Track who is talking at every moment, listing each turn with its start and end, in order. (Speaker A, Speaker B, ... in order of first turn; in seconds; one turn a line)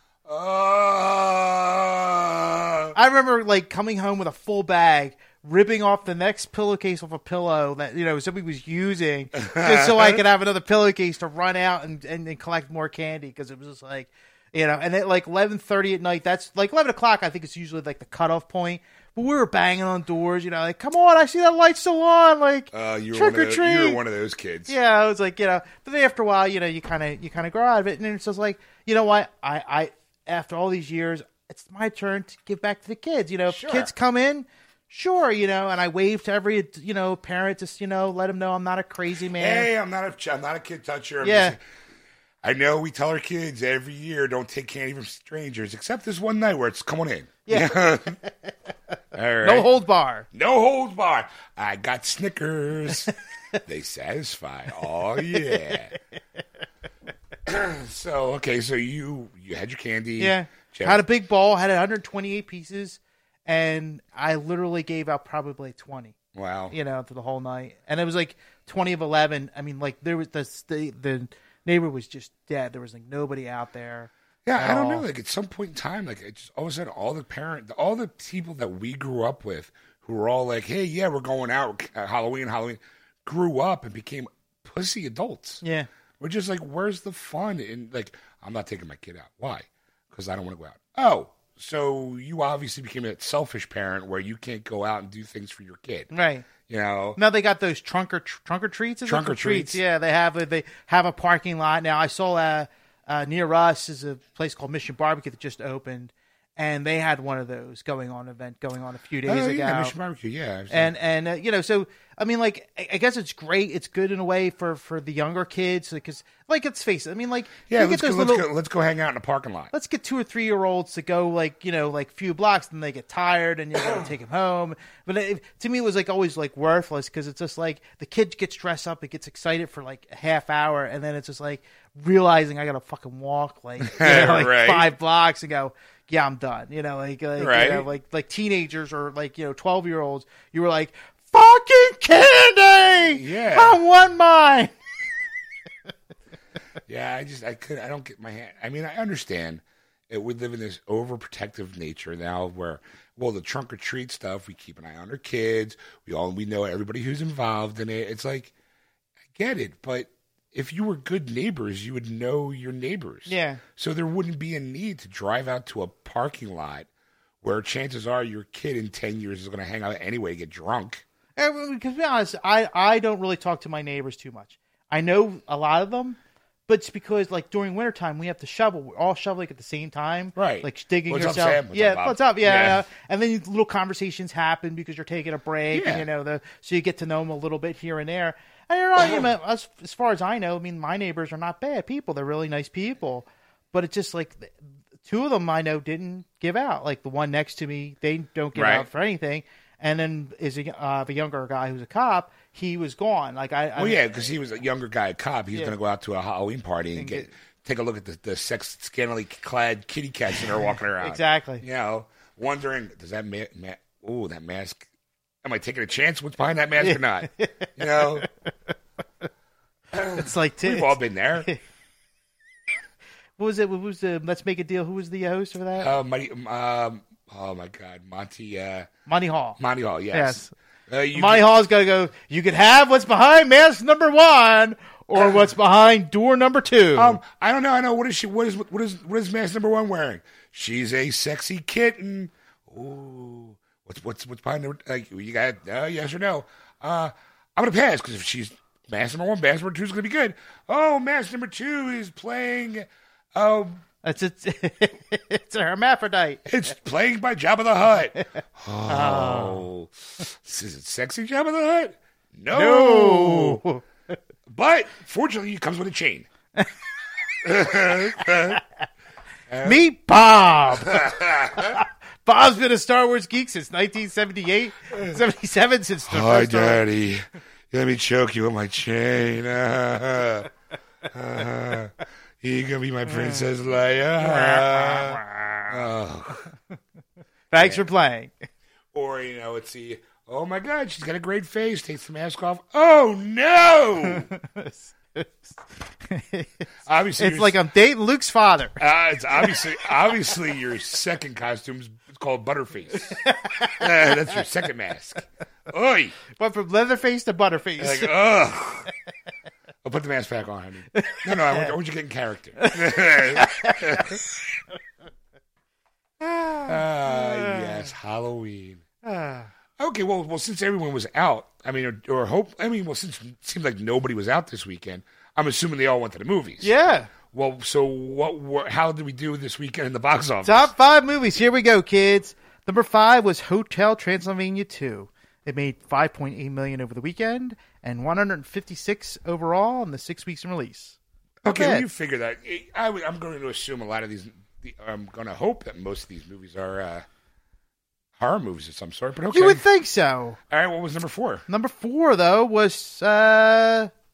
Speaker A: 0.2-3.0
Speaker B: 2.9-24.0
Speaker A: 9.3-10.2
Speaker A: 22.7-24.7
Speaker B: 24.7-39.7
Speaker A: 33.5-33.9
Speaker A: 39.4-41.6
Speaker B: 41.2-41.5
Speaker A: 42.4-48.2
Speaker B: 47.5-48.5
Speaker A: 49.1-49.7
Speaker B: 49.4-50.2
Speaker A: 50.3-55.9
Speaker B: 55.3-55.8
Speaker A: 57.4-61.0
Speaker B: 60.2-66.1
Speaker A: 66.3-66.7
Speaker B: 66.7-75.0
Speaker A: 74.5-85.6
Speaker B: 85.6-85.9
Speaker A: 86.2-96.1
Speaker B: 96.1-96.5
Speaker A: 96.6-97.2
Speaker B: 97.2-109.9
Speaker A: 99.0-99.8
Speaker A: 109.2-110.9
Speaker B: 110.7-118.5
Speaker A: 117.7-119.7
Speaker B: 119.7-144.7
Speaker A: 123.8-124.1
Speaker A: 133.8-134.9
Speaker A: 137.4-137.9
Speaker A: 143.1-143.8
Speaker A: 146.9-158.5
Speaker A: 159.3-166.9
Speaker B: 163.2-163.6
Speaker A: 167.4-171.0
Speaker B: 171.4-204.3
Speaker A: 180.3-182.8
Speaker A: 185.7-186.1
Speaker A: 198.5-198.9
Speaker A: 203.8-214.9
Speaker B: 206.9-207.3
Speaker B: 211.0-211.6
Speaker A: 215.4-218.3
Speaker B: 216.8-218.3
Speaker A: 219.9-221.5
Speaker B: 220.1-221.6
Speaker B: 223.4-226.0
Speaker A: 225.8-228.9
Speaker B: 229.1-229.6
Speaker A: 229.6-231.5
Speaker B: 230.1-230.5
Speaker B: 231.1-237.2
Speaker A: 236.9-253.8
Speaker B: 254.0-256.5
Speaker A: 256.5-263.6
Speaker B: 258.9-259.7
Speaker B: 262.5-264.1
Speaker A: 264.5-266.3
Speaker A: 267.4-268.6
Speaker B: 267.8-268.6
Speaker A: 269.5-269.8
Speaker B: 269.6-276.8
Speaker A: 270.7-271.8
Speaker A: 274.9-275.2
Speaker A: 276.0-280.5
Speaker A: 281.1-286.5
Speaker B: 283.1-283.5
Speaker B: 284.2-285.9
Speaker B: 287.5-288.5
Speaker A: 287.6-287.8
Speaker A: 288.9-294.3
Speaker B: 294.0-296.6
Speaker A: 296.9-297.6
Speaker B: 297.2-298.8
Speaker A: 298.8-306.2
Speaker B: 299.3-299.6
Speaker B: 303.1-304.3
Speaker B: 306.3-308.1
Speaker A: 307.8-308.9
Speaker A: 309.8-314.2
Speaker B: 310.9-311.7
Speaker B: 312.6-314.2
Speaker B: 316.2-317.9
Speaker A: 316.6-318.8
Speaker B: 319.0-319.5
Speaker A: 319.8-326.7
Speaker B: 326.6-327.1
Speaker A: 327.2-330.7
Speaker B: 330.4-340.9
Speaker A: 341.4-347.1
Speaker B: 341.5-341.8
Speaker A: 348.2-349.6
Speaker B: 349.3-350.4
Speaker A: 350.5-351.4
Speaker B: 351.5-353.9